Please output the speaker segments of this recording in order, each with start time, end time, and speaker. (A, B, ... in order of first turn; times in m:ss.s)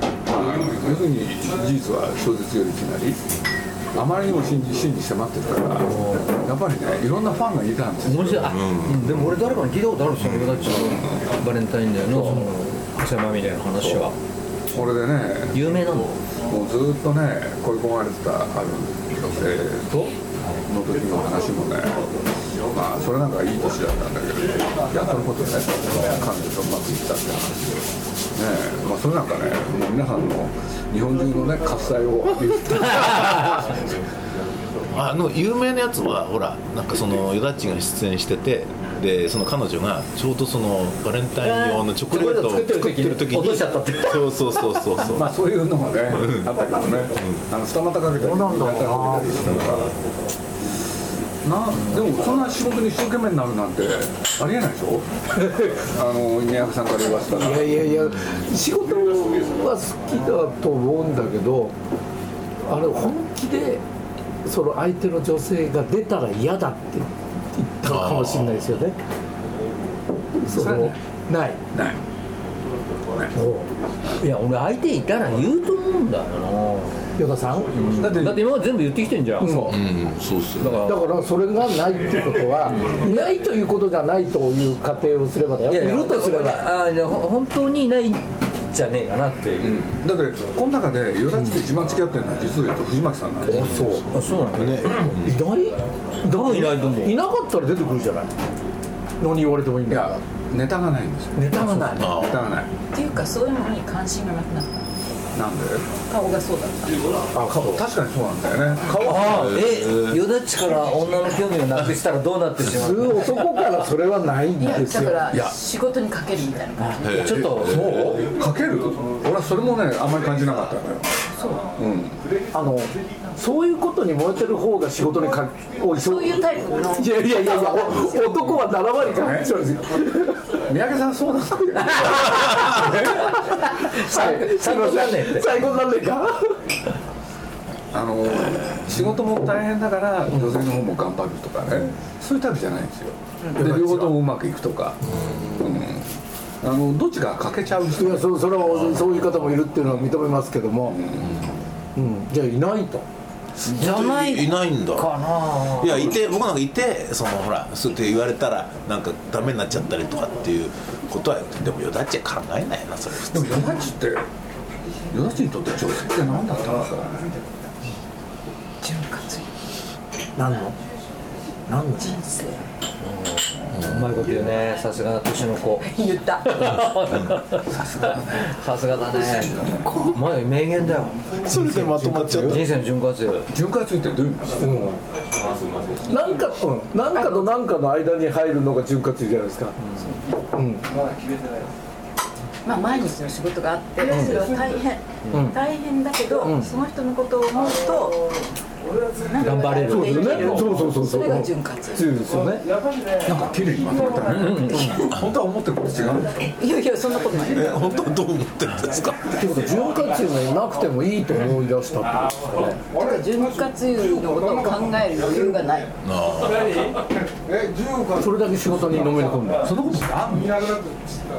0:00.3-0:03.2 A
0:04.0-0:08.5 A
0:05.9-0:06.3 B
0:08.0-0:14.2 B
0:08.5-0:09.4 C
0:10.2-0:10.6 C
0:10.9-0:11.2 A
0:12.1-0:12.5 A
0:13.8-0:14.1 A
0:14.7-0:15.8 A
0:15.5-0:16.1 B
0:16.5-0:20.2 A
0:20.7-0:22.1 A
0:22.7-0:33.7 A
0:34.9-0:45.3 C
0:41.4-0:44.3 B
0:45.1-0:49.9 A
0:46.2-0:46.5 C
0:48.2-0:49.3 D
0:51.4-0:55.1 A
0:55.4-0:55.8 D
0:55.6-0:57.8 A
0:57.2-1:01.7 D
1:02.7-1:03.8 D
1:04.4-1:09.0 D
1:07.9-1:08.8 C
1:10.4-1:11.6 D
1:10.5-1:11.0 A
1:11.7-1:12.0 A
1:13.3-1:13.7 D
1:14.2-1:17.1 B
1:17.2-1:17.8 D
1:17.7-1:19.8 B
1:18.0-1:18.4 A
1:19.4-1:19.8 D
1:19.7-1:20.9 C
1:20.6-1:21.0 B
1:20.8-1:26.6 D
1:22.8-1:23.3 B
1:25.7-1:29.7 B
1:29.6-1:33.8 A
1:33.5-1:34.2 D
1:33.6-1:35.4 C
1:33.6-1:35.2 B
1:35.0-1:38.3 D
1:36.3-1:37.2 B
1:39.2-1:40.2 D
1:39.9-1:42.7 A
1:41.4-1:42.2 D
1:42.0-1:42.4 C
1:42.9-1:44.9 E
1:45.3-1:45.9 A
1:46.1-1:47.1 E
1:47.4-1:47.8 D
1:47.4-1:49.0 A
1:48.9-1:49.6 D
1:49.0-1:53.4 B
1:49.2-1:50.2 C
1:52.6-1:55.3 D
1:54.6-1:57.4 E
1:55.3-1:55.6 A
1:57.0-1:58.1 C
1:57.1-1:57.9 B
1:57.7-2:01.1 A
1:57.8-1:58.1 D
2:01.4-2:01.7 E
2:01.8-2:02.2 A
2:02.5-2:06.4 D
2:05.9-2:08.4 E
2:07.0-2:10.4 D
2:09.1-2:09.5 A
2:10.7-2:13.4 A
2:12.2-2:16.6 D
2:13.6-2:15.5 B
2:17.9-2:28.3 A
2:23.6-2:24.2 D
2:25.2-2:25.5 C
2:27.9-2:31.0 D
2:30.9-2:31.5 A
2:31.2-2:31.5 C
2:32.0-2:33.0 D
2:33.6-2:36.2 B
2:33.8-2:43.6 C
2:43.3-2:44.3 A
2:45.1-2:47.5 A
2:48.8-2:49.5 E
2:50.4-2:50.8 D
2:51.7-2:52.2 D
2:51.9-2:52.6 E
2:53.0-2:55.9 B
2:53.7-2:54.3 C
2:55.8-2:56.9 E
2:56.4-2:57.7 B
2:57.7-2:58.5 A
2:58.4-3:01.2 B
3:01.4-3:02.6 C
3:01.6-3:02.6 D
3:02.4-3:03.5 B
3:03.5-3:04.9 A
3:04.6-3:05.0 D
3:06.0-3:09.8 D
3:07.1-3:07.5 E
3:10.0-3:10.4 E
3:10.5-3:10.9 D
3:12.6-3:18.3 E
3:14.0-3:14.5 D
3:15.3-3:15.6 D
3:16.4-3:16.7 D
3:19.1-3:22.2 E
3:19.4-3:20.7 B
3:19.9-3:22.7 D
3:23.2-3:26.4 A
3:24.3-3:25.0 B
3:26.6-3:27.9 E
3:27.5-3:29.3 C
3:29.4-3:32.8 D
3:32.8-3:35.9 E
3:36.0-3:36.9 C
3:37.4-3:41.1 A
3:38.2-3:39.7 D